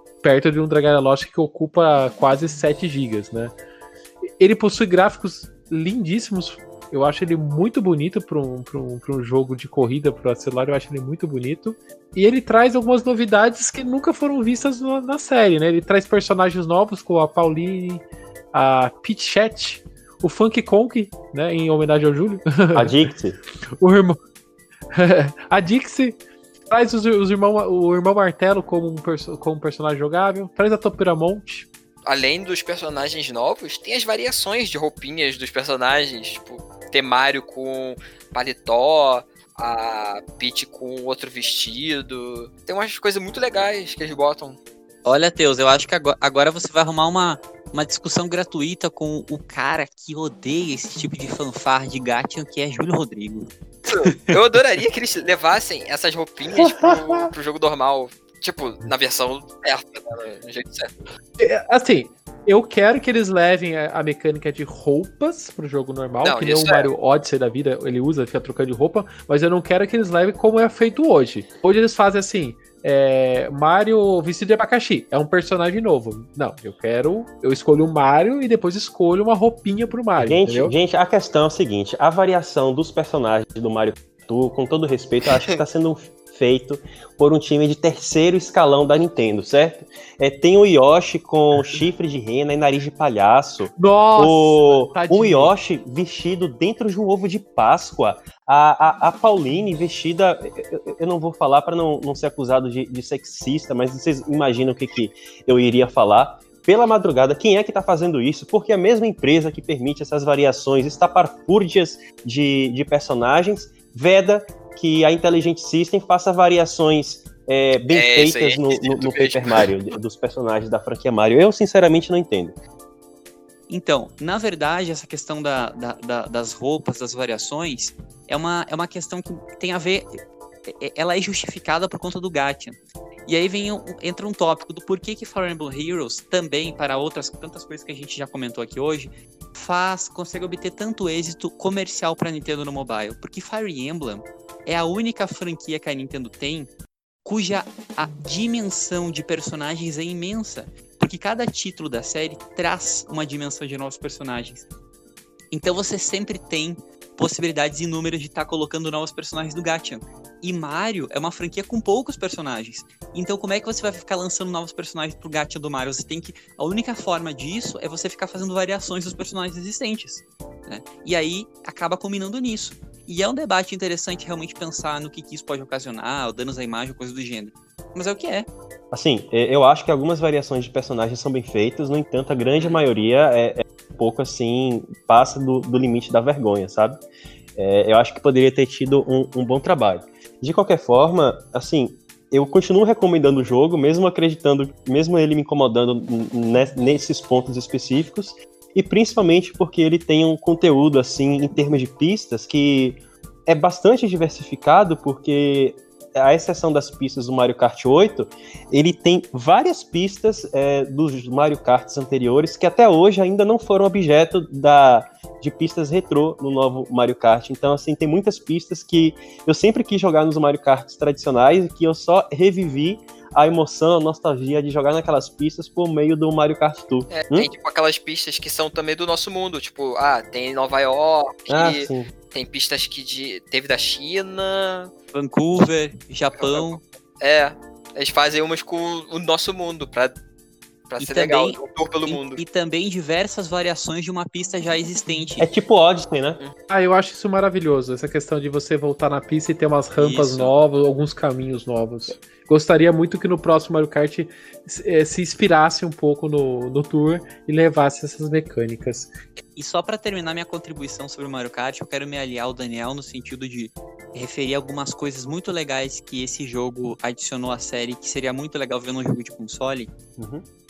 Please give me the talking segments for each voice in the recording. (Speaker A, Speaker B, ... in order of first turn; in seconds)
Speaker A: 0.2-3.5, 4.4-23.1, 23.8-24.2, 24.9-26.2, 26.7-31.7, 56.5-57.3, 61.4-80.7, 93.8-95.5, 246.7-259.1
Speaker B: 22.7-23.4, 80.2-122.6, 178.9-187.0, 187.6-227.5, 231.5-232.1, 245.4-246.4, 270.2-270.4
Speaker C: 32.0-44.6, 53.9-60.9, 66.2-66.9, 85.2-85.6, 117.9-119.7, 227.1-234.9, 236.4-240.2, 240.9-242.4
Speaker D: 45.0-54.4, 123.7-146.7, 147.2-154.7, 155.5-178.5, 235.1-236.8, 241.0-245.5, 250.0-250.6, 259.6-269.9